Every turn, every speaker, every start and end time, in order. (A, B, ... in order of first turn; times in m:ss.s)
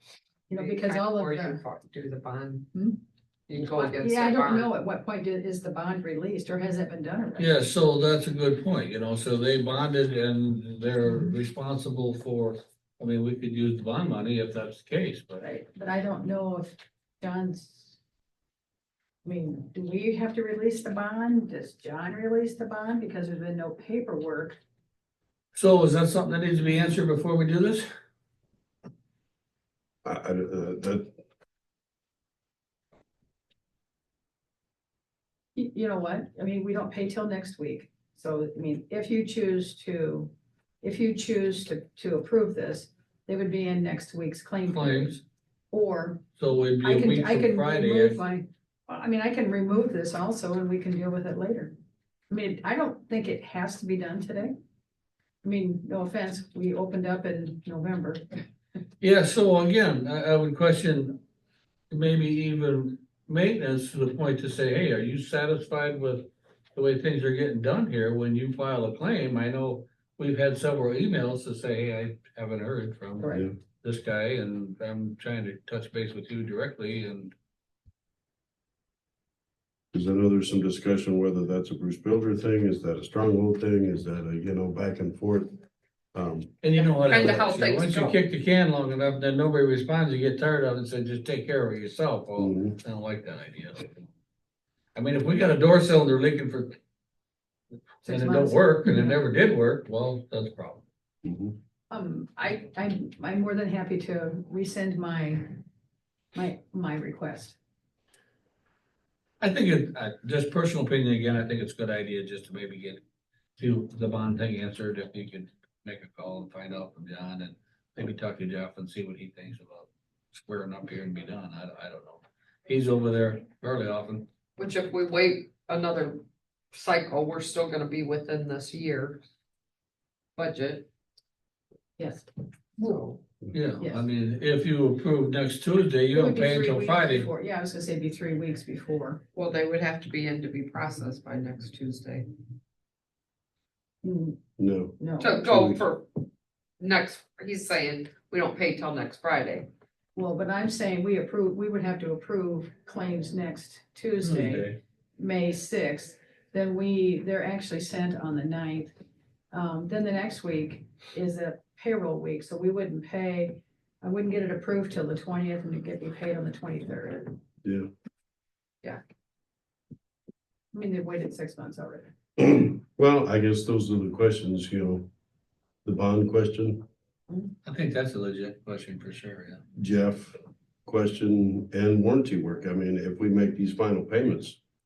0:00.5-0:01.6 A
0:00.5-0:02.7 B
0:02.7-0:03.0 A
0:03.5-0:04.7 B
0:03.7-0:07.6 A
0:07.4-0:15.4 C
0:15.4-0:18.0 A
0:19.2-0:24.6 A
0:25.5-0:27.8 C
0:30.0-0:31.1 D
0:35.6-0:40.3 A
0:40.8-0:45.2 A
0:44.7-0:45.2 C
0:45.7-0:46.2 A
0:46.4-0:48.2 C
0:46.8-0:51.7 A
0:52.3-0:54.5 A
0:55.4-0:58.4 A
0:59.0-1:01.2 C
1:01.9-1:17.3 C
1:13.2-1:13.4 A
1:19.9-1:25.6 D
1:26.1-1:26.5 D
1:26.6-1:34.0 C
1:26.8-1:28.2 B
1:32.4-1:32.8 D
1:34.9-1:36.8 C
1:38.0-1:40.8 C
1:38.0-1:39.2 A
1:41.2-1:41.5 D
1:41.9-1:45.6 A
1:46.3-1:47.6 A
1:49.4-1:53.0 C
1:53.6-2:04.3 C
2:04.6-2:09.2 B
2:10.4-2:10.9 B
2:12.0-2:12.3 A
2:12.8-2:13.2 B
2:13.5-2:17.3 C
2:13.8-2:14.0 A
2:16.1-2:19.2 A
2:19.3-2:22.2 B
2:24.0-2:24.4 A
2:24.6-2:25.8 D
2:25.0-2:25.4 A
2:25.2-2:26.1 B
2:26.8-2:29.7 B
2:30.1-2:38.9 A
2:34.2-2:34.8 C
2:39.5-2:47.4 A
2:47.6-2:47.9 D
2:50.7-2:52.1 A
2:52.4-2:55.1 D
2:55.8-2:56.8 D
2:57.6-2:59.7 C
2:59.8-3:04.6 D